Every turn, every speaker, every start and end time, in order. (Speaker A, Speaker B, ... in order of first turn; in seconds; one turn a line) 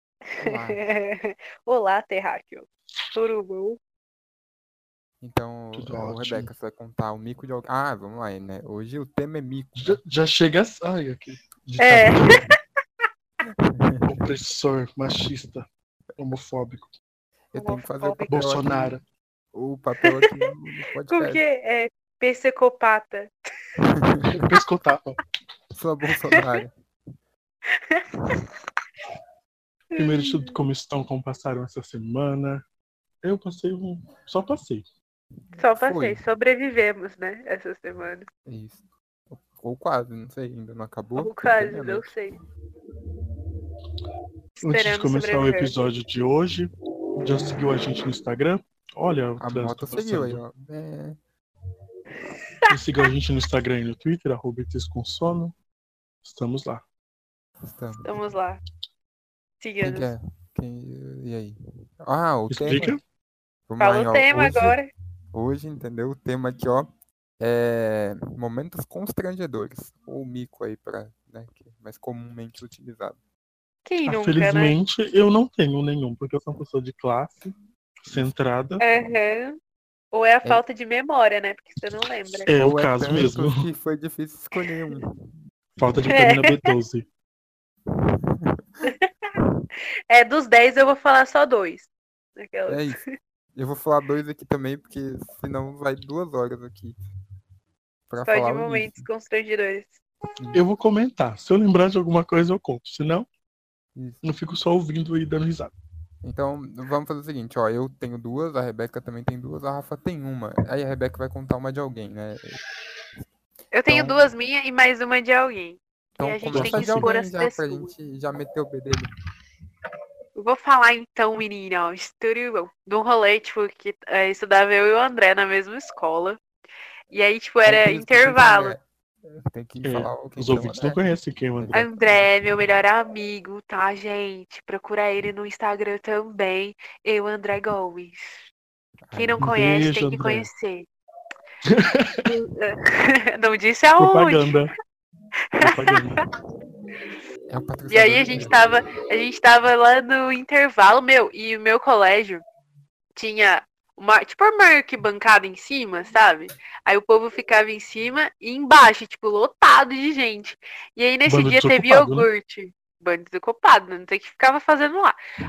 Speaker A: 0.4-3.8
Speaker B: 0.4-0.8
Speaker B: 5.2-10.0
Speaker C: 5.8-6.5
Speaker C: 9.8-12.5
Speaker A: 11.8-12.2
Speaker B: 13.6-14.3
Speaker C: 14.1-15.7
Speaker C: 16.2-16.9
Speaker B: 17.5-19.0
Speaker A: 17.6-18.4
Speaker C: 18.3-19.0
Speaker B: 19.5-21.4
Speaker A: 20.0-20.3
Speaker A: 21.1-23.3
Speaker B: 23.8-24.3
Speaker C: 24.3-25.2
Speaker B: 25.7-26.7
Speaker A: 27.7-28.3
Speaker A: 29.9-30.6
Speaker C: 30.0-32.6
Speaker C: 33.2-34.8
Speaker A: 35.6-38.3
Speaker B: 35.6-36.2
Speaker B: 38.5-42.1
Speaker A: 41.2-42.4
Speaker C: 44.6-50.4
Speaker A: 44.6-45.8
Speaker B: 49.4-51.2
Speaker C: 52.7-55.5
Speaker C: 56.2-56.8
Speaker B: 57.6-58.2
Speaker A: 58.0-58.6
Speaker A: 59.6-60.1
Speaker B: 59.8-63.0
Speaker C: 62.5-63.0
Speaker B: 63.7-64.8
Speaker A: 63.8-64.9
Speaker B: 65.3-73.2
Speaker A: 73.8-74.8
Speaker C: 74.1-78.8
Speaker B: 78.1-78.3
Speaker A: 78.8-79.6
Speaker A: 80.1-82.5
Speaker C: 82.3-83.7
Speaker B: 82.5-85.3
Speaker C: 85.8-87.0
Speaker A: 86.1-86.7
Speaker B: 88.1-88.6
Speaker A: 90.1-93.0
Speaker B: 92.7-93.0
Speaker B: 93.5-97.0
Speaker B: 98.1-99.1
Speaker A: 98.3-100.0
Speaker C: 100.5-103.3
Speaker B: 104.0-104.3
Speaker C: 104.2-105.7
Speaker B: 106.2-112.6
Speaker A: 113.7-117.9
Speaker B: 113.9-114.3
Speaker B: 116.2-119.1
Speaker C: 116.5-117.1
Speaker A: 120.4-126.4
Speaker A: 127.1-128.8
Speaker B: 127.7-132.3
Speaker C: 129.8-131.9
Speaker A: 131.7-138.3
Speaker B: 139.1-139.6
Speaker A: 139.1-140.9
Speaker C: 139.4-140.5
Speaker C: 141.7-142.2
Speaker A: 142.2-144.6
Speaker C: 144.0-144.7
Speaker C: 145.6-146.2
Speaker B: 147.5-148.6
Speaker A: 147.9-152.4
Speaker A: 153.2-165.2
Speaker C: 161.3-162.3